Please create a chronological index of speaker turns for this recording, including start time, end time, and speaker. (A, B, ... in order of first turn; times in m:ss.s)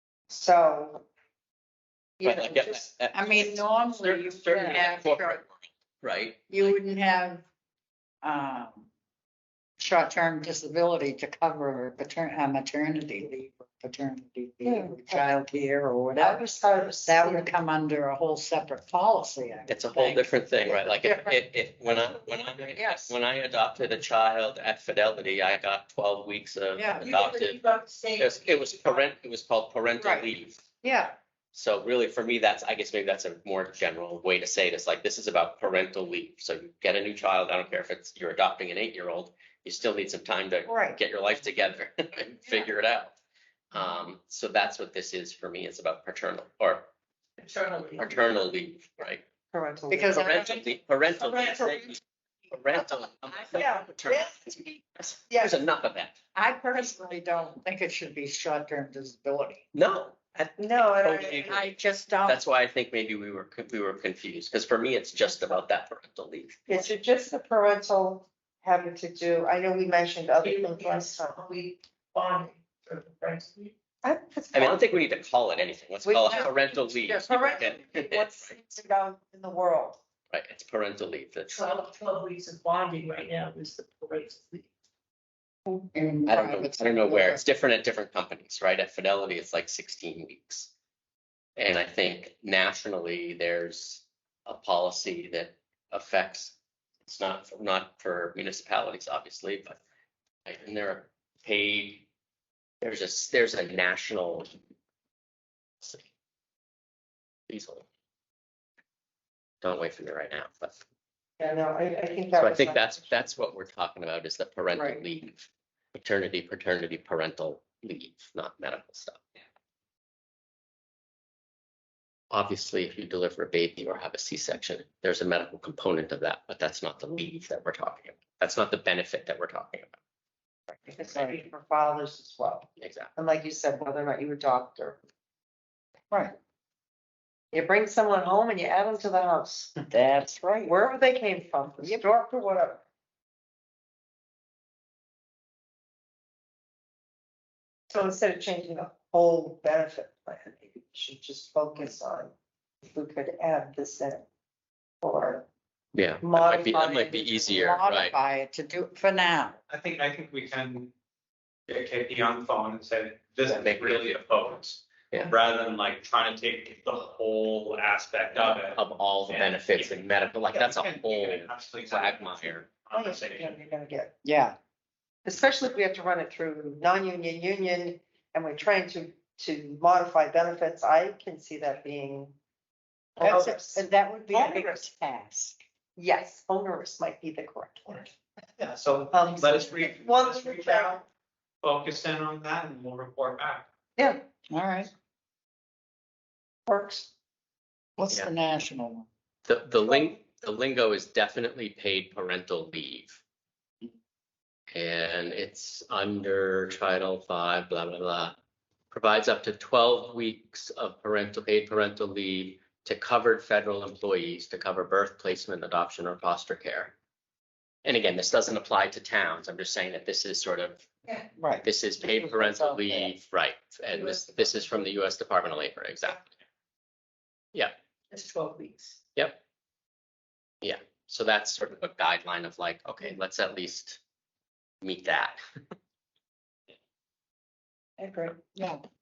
0:00.3-0:01.1 A
0:02.2-0:02.8 A
0:02.2-0:05.5 B
0:03.1-0:05.4 C
0:06.0-0:06.7 B
0:06.5-0:07.4 C
0:08.2-0:08.9 C
0:09.8-0:20.3 C
0:14.6-0:15.3 A
0:16.2-0:17.5 A
0:19.7-0:27.6 B
0:21.1-0:21.3 A
0:22.4-0:23.1 A
0:26.8-0:27.1 C
0:27.0-0:29.0 D
0:28.2-0:30.7 B
0:30.8-0:31.2 C
0:31.5-0:43.1 B
0:40.7-0:41.0 C
0:43.7-0:46.9 B
0:47.4-0:48.2 D
0:48.0-0:49.2 B
0:49.5-0:50.6 A
0:49.9-0:50.4 C
0:50.1-0:52.0 B
0:51.2-0:51.8 D
0:52.5-0:56.2 B
0:53.5-0:54.8 A
0:55.3-0:55.6 A
0:56.4-0:59.6 C
0:59.7-1:01.7 B
1:00.6-1:01.7 A
1:01.4-1:02.4 C
1:02.2-1:06.9 B
1:06.7-1:11.4 A
1:10.4-1:13.7 D
1:14.0-1:14.9 A
1:14.5-1:18.5 B
1:16.0-1:16.5 A
1:17.0-1:17.9 C
1:17.2-1:20.0 A
1:20.3-1:21.6 B
1:21.5-1:24.7 D
1:25.7-1:27.4 C
1:26.3-1:30.7 B
1:31.6-1:39.8 B
1:40.5-1:42.1 B
1:42.8-1:44.5 B
1:45.8-1:46.1 B
1:47.5-1:47.9 B
1:49.6-1:50.8 B
1:51.4-1:53.3 A
1:52.3-1:59.2 B
1:54.7-1:55.0 C
2:02.3-2:10.0 B
2:10.8-2:15.0 A
2:11.1-2:11.4 C
2:12.8-2:13.1 B
2:17.5-2:19.7 A
2:19.9-2:20.7 C
2:20.6-2:22.8 A
2:27.9-2:32.3 A
2:32.9-2:34.3 A
2:35.0-2:35.5 A
2:36.0-2:38.2 B
2:36.2-2:37.6 A
2:37.5-2:39.6 C
2:39.7-2:40.9 E
2:41.7-2:53.6 E
2:43.5-2:44.1 B
2:48.7-2:52.7 B
2:52.9-2:54.2 A
2:54.2-2:54.6 C
2:55.2-3:02.4 A
3:03.2-3:04.8 A
3:03.2-3:05.6 C
3:06.0-3:08.1 A
3:08.6-3:11.0 E
3:09.1-3:11.0 A
3:11.6-3:13.7 E
3:14.0-3:14.2 A
3:14.5-3:14.9 C
3:16.7-3:17.1 A
3:18.0-3:19.1 C
3:19.4-3:23.2 B
3:19.8-3:20.1 A
3:24.7-3:28.4 B
3:28.9-3:37.0 B
3:37.8-3:40.8 B
3:41.4-3:43.1 C
3:41.6-3:46.3 B
3:44.0-3:44.4 D
3:48.1-3:49.0 D
3:50.6-3:54.0 B
3:54.8-3:55.4 B
3:58.0-3:58.4 A
3:58.5-3:58.8 C